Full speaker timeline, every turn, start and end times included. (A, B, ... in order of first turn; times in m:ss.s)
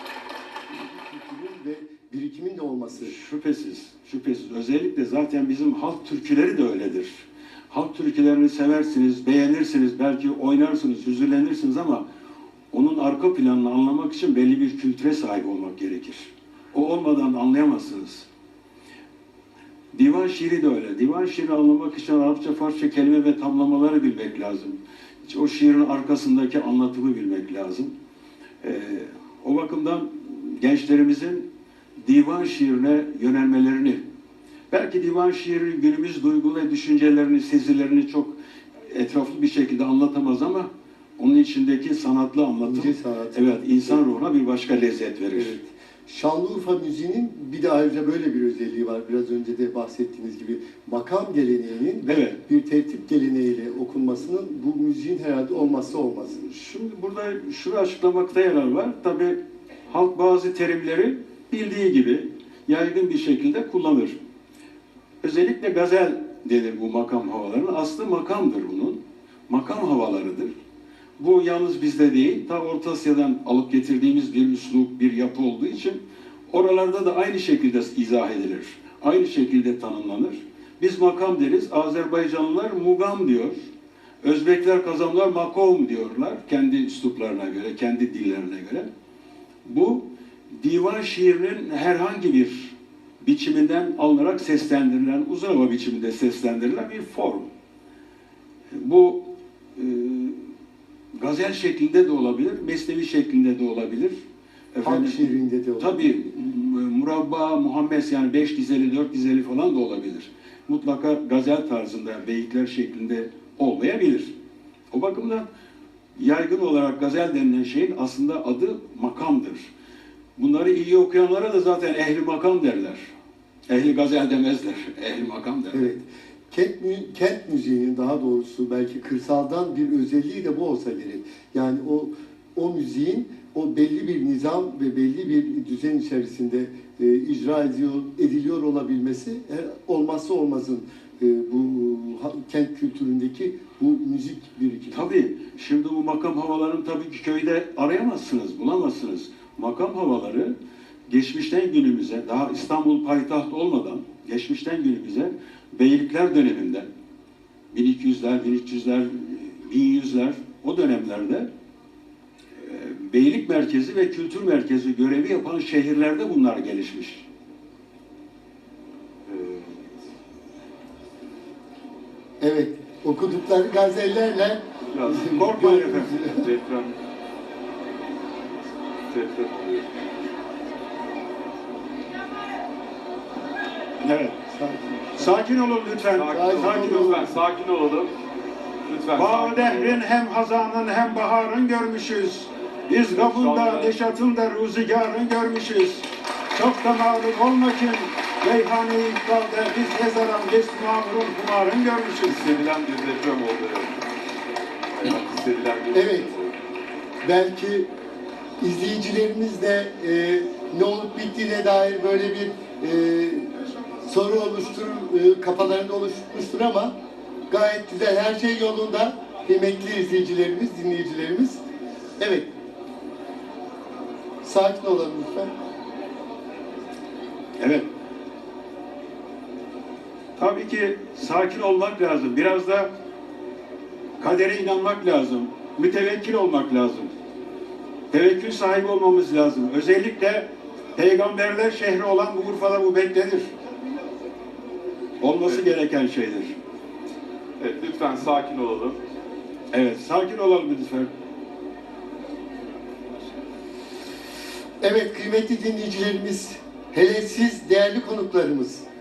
0:00.8-0:03.1 A
0:03.0-0:12.0 B
0:12.7-0:18.3 B
0:19.9-0:27.9 B
0:28.6-0:31.4 B
0:32.0-0:34.0 B
0:34.7-0:38.4 B
0:38.9-0:45.6 B
0:42.6-0:44.0 A
0:45.3-0:56.4 A
0:52.0-0:52.4 B
0:56.4-1:04.2 B
1:05.2-1:10.5 B
1:11.2-1:23.6 B
1:24.2-1:28.9 B
1:29.6-1:37.5 B
1:38.7-1:40.4 B
1:41.1-1:44.2 B
1:44.7-1:54.3 B
1:44.8-1:46.2 A
1:54.9-1:55.4 B
1:56.2-1:59.7 B
2:00.4-2:03.0 B
2:03.7-2:05.9 B
2:05.7-2:25.1 A
2:24.9-2:30.5 B
2:31.1-2:36.9 B
2:37.7-2:41.5 B
2:42.6-2:47.2 B
2:49.2-2:49.8 C
2:52.4-2:56.5 A
2:54.9-2:57.0 C
2:55.3-2:56.1 B
2:59.1-3:00.0 C
3:04.0-3:04.4 B
3:04.5-3:05.3 A
3:05.2-3:07.2 B
3:06.1-3:08.1 C
3:06.3-3:07.3 A
3:08.8-3:10.0 C
3:09.2-3:22.4 B
3:13.1-3:14.0 C
3:22.3-3:23.9 C
3:25.0-3:26.5 C
3:25.9-3:26.3 A
3:27.2-3:27.9 A
3:28.6-3:33.5 A
3:34.0-3:36.9 A
3:37.5-3:41.6 A
3:42.2-3:42.5 A
3:44.4-3:45.5 A
3:47.6-3:47.9 B
3:50.4-3:52.9 B
3:54.2-3:57.1 B
3:58.1-4:03.5 B
4:05.2-4:06.5 B
4:07.6-4:09.0 C
4:09.7-4:11.1 B
4:14.8-4:18.8 A